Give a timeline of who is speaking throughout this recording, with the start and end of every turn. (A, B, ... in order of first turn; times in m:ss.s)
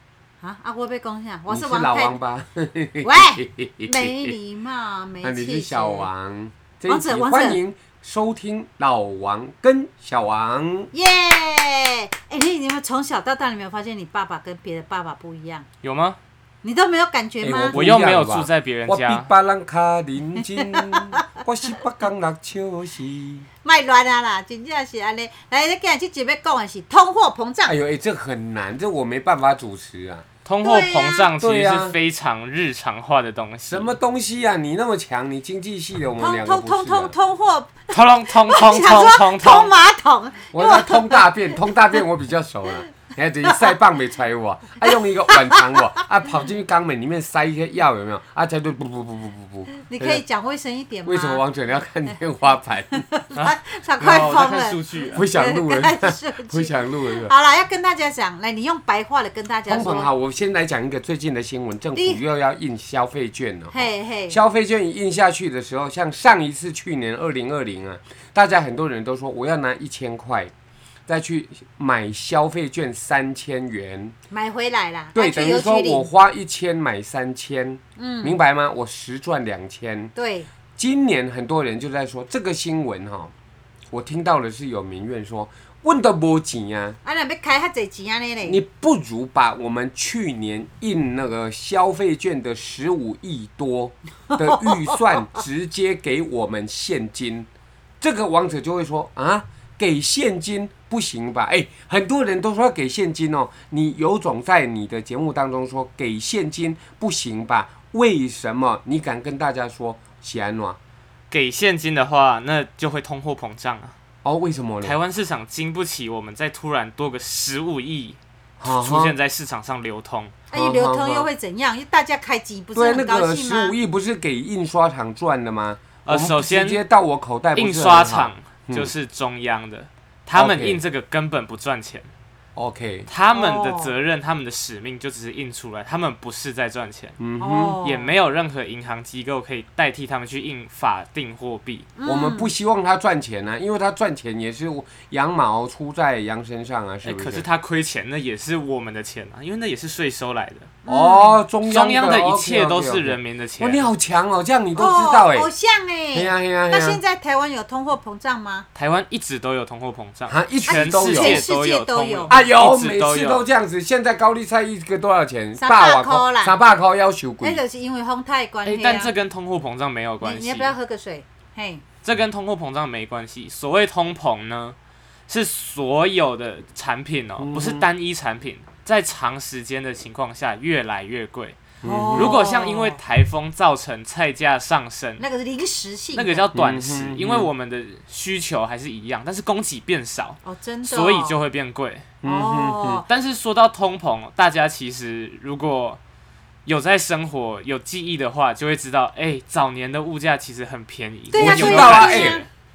0:00.4-0:02.1 A
0:01.5-0:04.3 B
0:03.0-0:06.1 A
0:05.2-0:10.9 B
0:06.9-0:07.6 A
0:10.9-0:15.7 A
0:15.8-0:16.2 C
0:16.6-0:17.8 A
0:17.4-0:23.5 B
0:17.7-0:19.3 C
0:20.8-0:21.1 A
0:23.6-0:27.8 A
0:27.7-0:30.2 B
0:30.4-0:34.0 C
0:30.6-0:31.3 A
0:31.4-0:32.0 B
0:33.7-0:37.1 B
0:36.2-0:42.0 A
0:37.9-0:39.8 C
0:40.5-0:50.2 B
0:43.5-0:43.8 A
0:45.3-0:45.8 A
0:49.9-0:51.4 A
0:51.0-0:53.0 B
0:53.0-1:00.1 A
0:53.4-0:55.3 C
0:55.2-0:57.3 B
0:59.7-1:10.5 B
1:02.0-1:02.2 A
1:03.7-1:04.4 A
1:11.1-1:14.2 B
1:14.3-1:16.1 A
1:15.1-1:20.1 B
1:18.0-1:18.4 A
1:20.2-1:20.5 A
1:20.8-1:23.3 B
1:23.9-1:27.0 B
1:27.0-1:28.6 A
1:28.4-1:37.5 B
1:34.4-1:35.0 A
1:38.0-1:50.8 B
1:51.3-1:54.0 C
1:54.2-1:55.0 B
1:54.8-2:00.4 C
1:58.6-1:59.2 B
2:00.5-2:01.3 B
2:00.5-2:03.7 A
2:02.8-2:08.9 B
2:06.0-2:06.8 C
2:07.6-2:12.1 C
2:10.4-2:10.8 B
2:12.6-2:13.1 B
2:13.1-2:17.2 C
2:13.3-2:13.9 A
2:17.2-2:17.8 B
2:17.4-2:18.1 A
2:17.8-2:21.9 C
2:22.0-2:22.5 A
2:22.0-2:27.4 B
2:27.0-2:30.7 C
2:30.8-2:31.4 A
2:30.9-2:35.5 B
2:31.6-2:33.9 C
2:34.8-2:38.7 A
2:36.1-2:37.0 B
2:38.8-2:43.4 C
2:40.3-2:41.4 B
2:40.7-2:42.4 A
2:42.3-2:47.6 B
2:45.6-2:46.6 A
2:47.4-2:49.1 A
2:48.6-2:50.7 C
2:50.2-2:51.8 A
2:52.0-2:54.8 C
2:55.3-3:01.6 C
2:57.4-2:57.9 B
3:01.8-3:02.4 B
3:01.8-3:03.0 A
3:02.1-3:05.2 C
3:05.2-3:06.5 A
3:06.1-3:12.1 C
3:06.5-3:07.5 B
3:10.4-3:11.4 A
3:12.2-3:13.0 B
3:12.2-3:13.1 A
3:13.1-3:16.0 C
3:16.6-3:22.5 C
3:21.3-3:22.4 A
3:21.4-3:22.4 B